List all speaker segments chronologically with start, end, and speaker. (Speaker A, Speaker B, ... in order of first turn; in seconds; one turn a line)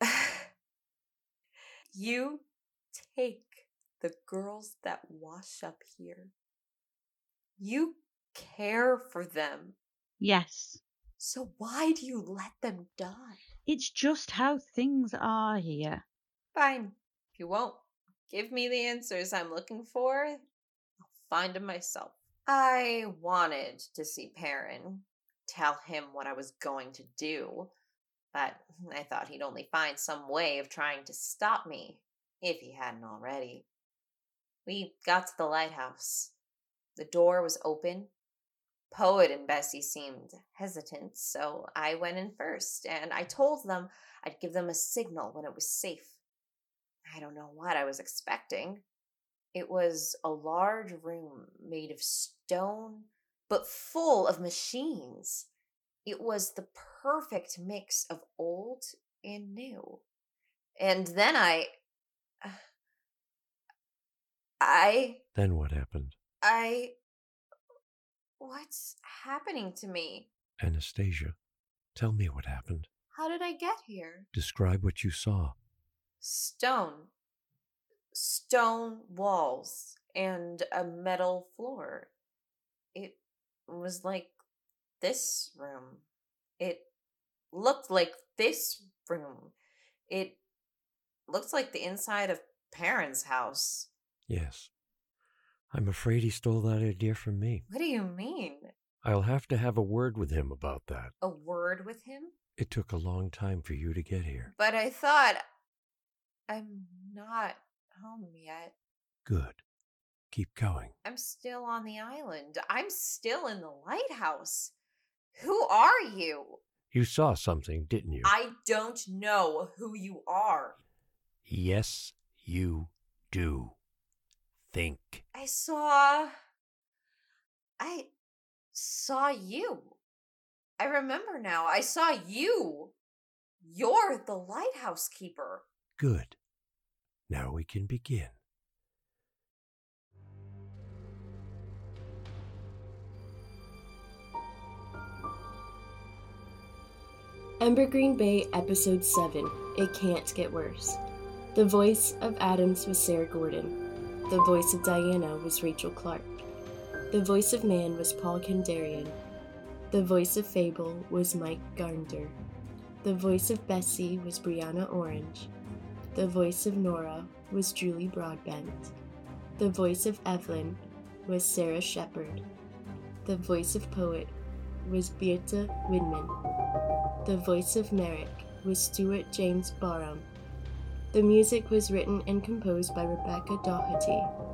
Speaker A: 0.1-0.4
Speaker A: 1.9-6.3
Speaker A: 7.6-9.8
Speaker B: 10.2-10.8
Speaker A: 11.2-13.4
Speaker B: 13.7-16.0
Speaker A: 16.5-20.4
Speaker A: 21.1-27.7
Speaker A: 28.3-33.6
Speaker A: 34.6-36.3
Speaker A: 37.0-38.1
Speaker A: 38.9-46.1
Speaker A: 47.1-48.8
Speaker A: 49.5-55.5
Speaker A: 56.0-60.0
Speaker A: 60.8-61.7
Speaker A: 64.6-65.2
Speaker C: 65.3-66.2
Speaker A: 66.4-67.0
Speaker A: 68.4-70.3
Speaker C: 70.6-71.3
Speaker C: 71.9-72.9
Speaker A: 73.1-74.3
Speaker C: 74.3-75.5
Speaker A: 76.2-77.1
Speaker A: 78.1-82.1
Speaker A: 82.9-84.3
Speaker A: 85.0-86.0
Speaker A: 86.6-86.9
Speaker A: 87.5-89.5
Speaker A: 90.1-90.4
Speaker A: 91.3-93.9
Speaker C: 94.3-94.7
Speaker C: 95.7-97.6
Speaker A: 97.7-98.7
Speaker C: 99.0-101.1
Speaker A: 101.2-102.3
Speaker C: 102.6-104.5
Speaker A: 104.5-105.4
Speaker A: 106.5-108.7
Speaker C: 109.2-109.6
Speaker C: 110.3-110.9
Speaker A: 111.0-114.7
Speaker A: 115.3-116.6
Speaker C: 116.9-118.3
Speaker A: 118.2-120.8
Speaker C: 121.5-123.8
Speaker C: 124.7-125.2
Speaker A: 125.3-126.3
Speaker A: 127.8-128.1
Speaker A: 128.7-130.0
Speaker A: 130.8-132.9
Speaker A: 133.6-135.6
Speaker C: 136.0-136.3
Speaker C: 137.3-138.3
Speaker D: 147.6-151.0
Speaker D: 151.5-153.8
Speaker D: 154.3-156.3
Speaker D: 157.1-159.2
Speaker D: 159.9-162.4
Speaker D: 163.0-165.5
Speaker D: 166.1-168.9
Speaker D: 169.6-172.4
Speaker D: 173.2-176.3
Speaker D: 177.2-180.3
Speaker D: 181.1-184.3